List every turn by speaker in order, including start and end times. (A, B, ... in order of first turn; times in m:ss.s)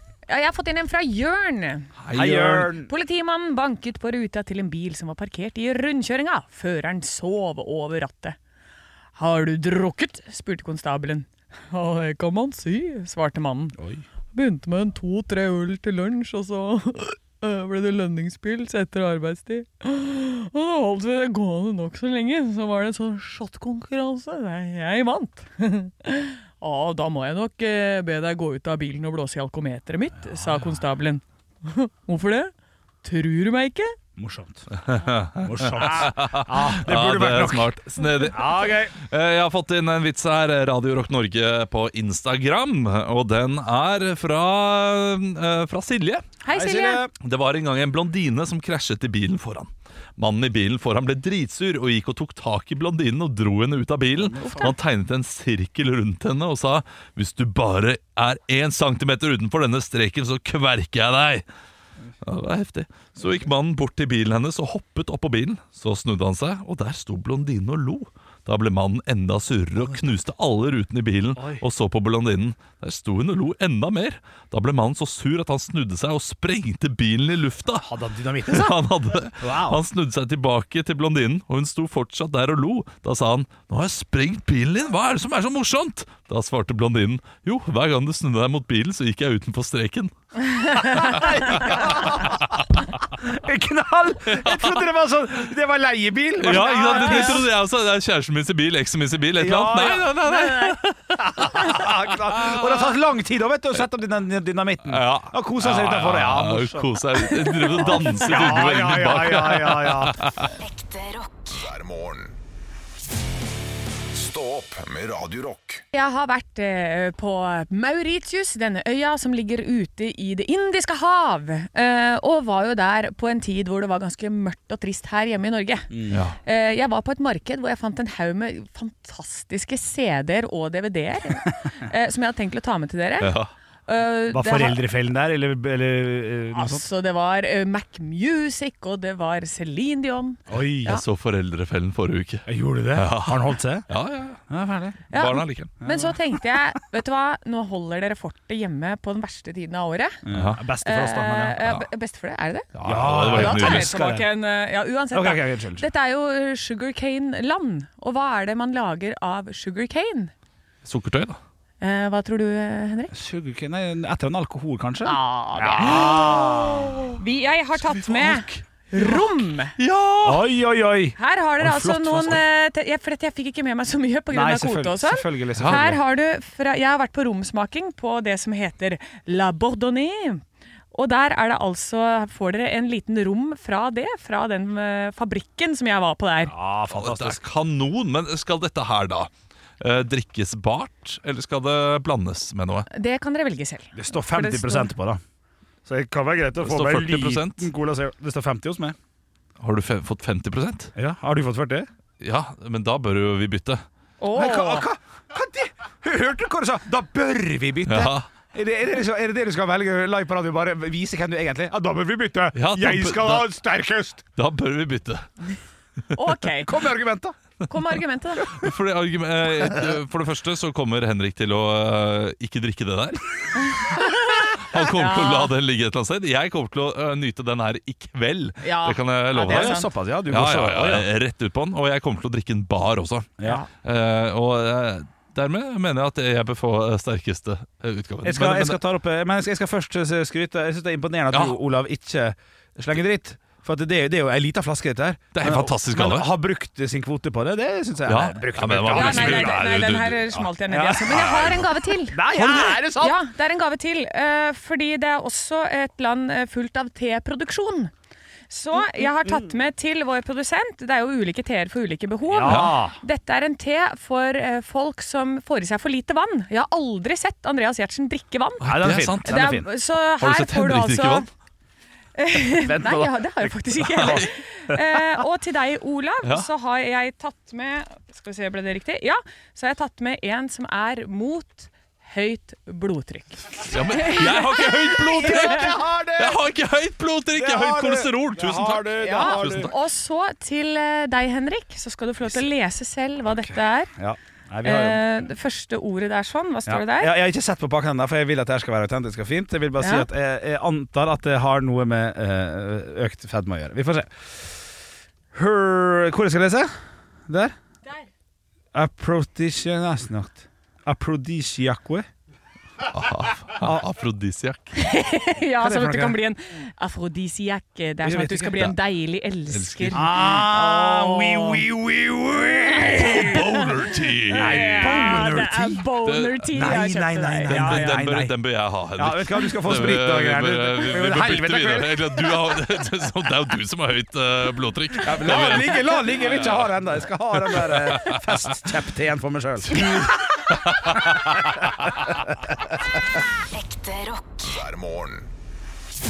0:00.3-0:01.9 A
0:02.0-0:02.7 B
0:02.1-0:02.9 C
0:02.8-0:08.4 A
0:09.2-0:13.8 A
0:13.8-0:14.0 C
0:14.3-0:32.5 A
0:33.0-0:34.0 A
0:34.2-0:34.7 C
0:34.7-0:46.2 B
0:35.4-0:37.7 C
0:38.2-0:39.0 C
0:46.4-0:47.0 A
0:46.5-0:47.1 C
0:47.2-1:01.4 B
0:54.2-0:54.7 C
0:54.4-0:54.7 A
1:02.2-1:17.9 B
1:11.4-1:11.6 C
1:17.8-1:18.9 C
1:18.5-1:30.1 B
1:19.4-1:19.8 C
1:30.7-1:32.6 B
1:31.0-1:37.5 C
1:34.4-1:34.7 B
1:36.4-1:42.9 B
1:36.5-1:37.4 A
1:39.4-1:40.3 C
1:40.3-1:40.8 A
1:41.2-1:47.1 C
1:44.9-1:50.5 B
1:47.4-1:48.5 A
1:47.8-1:50.2 C
1:50.6-1:51.6 D
1:51.5-1:52.4 E
1:54.1-1:55.8 E
1:55.9-2:05.9 A
2:05.9-2:06.2 C
2:06.1-2:06.4 B
2:06.4-2:14.8 A
2:13.2-2:13.5 B
2:14.3-2:16.8 C
2:16.6-2:21.0 A
2:20.5-2:21.0 C
2:20.9-2:24.4 B
2:22.5-2:23.9 C
2:24.5-2:25.0 C
2:25.1-2:30.2 A
2:25.1-2:25.7 B
2:25.8-2:26.2 C
2:30.2-2:31.6 C
2:30.3-2:30.6 B
2:30.8-2:32.7 A
2:32.8-2:33.9 B
2:32.8-2:34.3 C
2:33.2-2:40.3 A
2:35.1-2:35.9 C
2:40.8-2:41.4 B
2:41.8-2:43.1 A
2:43.1-2:47.1 C
2:45.0-2:49.8 A
2:45.8-2:46.5 B
2:47.8-2:49.3 B
2:49.8-2:50.5 B
2:50.2-2:52.4 C
2:51.2-3:06.5 A
2:52.1-2:52.4 B
2:54.3-2:56.0 C
2:55.6-2:56.0 B
3:06.4-3:07.4 C
3:06.9-3:12.9 B
3:12.9-3:14.9 A
3:14.0-3:15.2 C
3:15.8-3:19.0 C
3:16.6-3:17.7 B
3:19.6-3:20.9 B
3:21.0-3:21.9 C
3:22.2-3:23.8 B
3:24.2-3:24.8 A
3:24.3-3:34.3 C
3:27.9-3:28.3 B
3:32.6-3:33.5 B
3:34.4-3:35.3 B
3:36.1-3:36.7 A
3:36.6-3:37.4 C
3:37.7-3:38.6 A
3:38.5-3:58.8 B
3:43.8-3:45.5 A
3:48.6-3:49.9 A
3:49.4-3:51.1 C
3:53.4-3:53.6 C
3:53.4-3:53.7 A
3:58.2-4:09.7 C
4:01.3-4:01.6 B
4:05.3-4:06.3 B
4:08.1-4:10.5 B
4:08.9-4:17.9 A
4:10.7-4:13.2 C
4:11.1-4:11.6 B
4:18.5-4:31.3 A
4:18.8-4:19.5 C
4:22.3-4:23.0 C
4:22.4-4:22.8 B
4:28.6-4:29.5 B
4:28.6-4:29.7 C
4:30.2-4:31.3 B
4:32.2-4:45.7 A
4:32.5-4:35.0 C
4:33.8-4:34.3 B
4:36.2-4:36.5 B
4:43.7-4:49.8 B
4:45.0-4:46.4 C
4:47.4-4:49.7 C
4:49.0-4:53.9 A
4:53.3-4:55.0 C
4:54.6-4:57.1 A
4:56.7-5:04.7 C
4:59.8-5:00.1 A
5:05.3-5:06.7 C
5:07.3-5:07.5 C
5:08.7-5:12.1 C
5:12.9-5:14.8 B
5:14.8-5:21.6 A
5:15.6-5:16.2 C
5:18.0-5:18.7 C
5:19.5-5:20.2 B
5:19.9-5:23.4 C
5:22.5-5:23.7 A
5:23.0-5:25.2 B
5:24.3-5:28.0 A
5:24.3-5:25.8 C
5:26.0-5:26.8 B
5:26.5-5:28.4 C
5:27.5-5:36.6 B
5:29.0-5:32.3 C
5:35.0-5:42.6 C
5:37.5-5:38.3 B
5:39.7-5:41.4 B
5:43.4-5:44.5 D
5:44.4-5:45.3 E